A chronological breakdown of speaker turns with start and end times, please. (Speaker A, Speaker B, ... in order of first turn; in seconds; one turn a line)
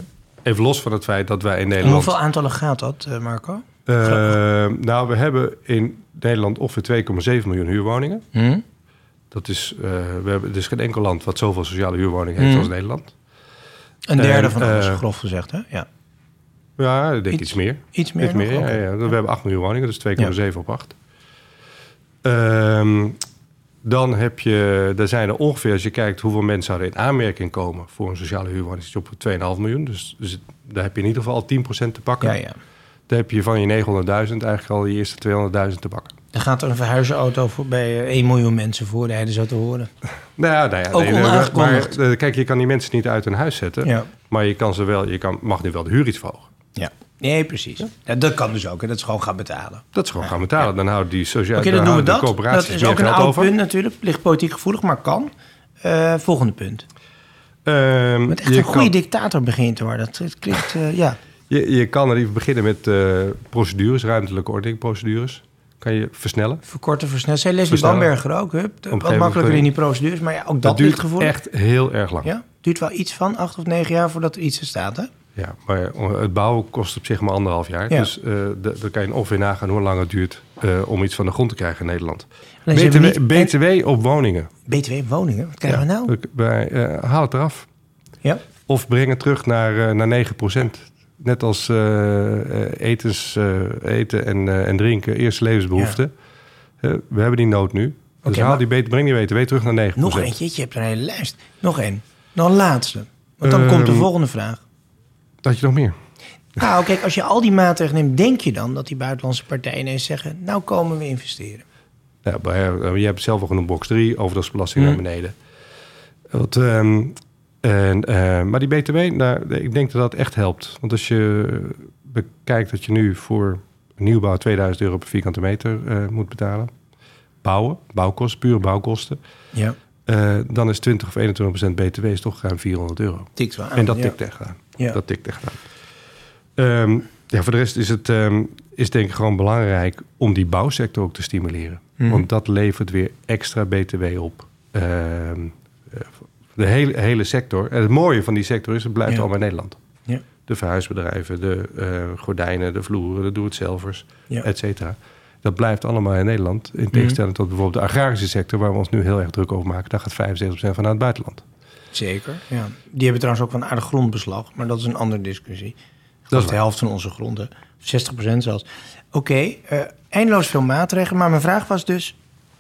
Speaker A: 0.4-2.2
Speaker B: 1.8-4.3
Speaker A: 3.9-8.2
Speaker B: 8.3-8.6
Speaker A: 9.3-13.2
Speaker B: 12.4-12.7
Speaker B: 14.1-15.9
Speaker A: 14.2-15.0
Speaker A: 16.8-21.0
Speaker B: 17.3-18.8
Speaker A: 22.2-23.2
Speaker A: 23.8-32.4
Speaker B: 32.2-32.6
Speaker A: 33.1-36.1
Speaker B: 36.3-39.9
Speaker A: 40.4-46.5
Speaker B: 40.9-42.0
Speaker B: 43.8-44.1
Speaker B: 46.8-50.3
Speaker A: 49.9-53.5
Speaker B: 51.6-55.3
Speaker B: 55.8-56.9
Speaker A: 57.6-58.9
Speaker B: 58.3-61.2
Speaker A: 61.5-66.6
Speaker B: 66.7-71.3
Speaker A: 67.7-68.1
Speaker A: 68.9-69.7
Speaker A: 70.6-72.3
Speaker B: 72.2-75.1
Speaker A: 75.4-84.5
Speaker B: 82.7-83.5
Speaker B: 84.7-86.2
Speaker A: 85.7-87.7
Speaker A: 88.7-96.1
Speaker A: 96.8-100.3
Speaker B: 98.3-98.6
Speaker B: 100.0-104.6
Speaker A: 103.4-104.1
Speaker A: 105.4-106.0
Speaker B: 106.6-111.7
Speaker A: 112.2-115.4
Speaker A: 116.3-126.7
Speaker A: 127.4-129.2
Speaker A: 130.1-135.7
Speaker B: 133.4-134.2
Speaker A: 136.6-149.8
Speaker A: 150.5-161.4
Speaker B: 161.9-165.8
Speaker B: 166.3-172.2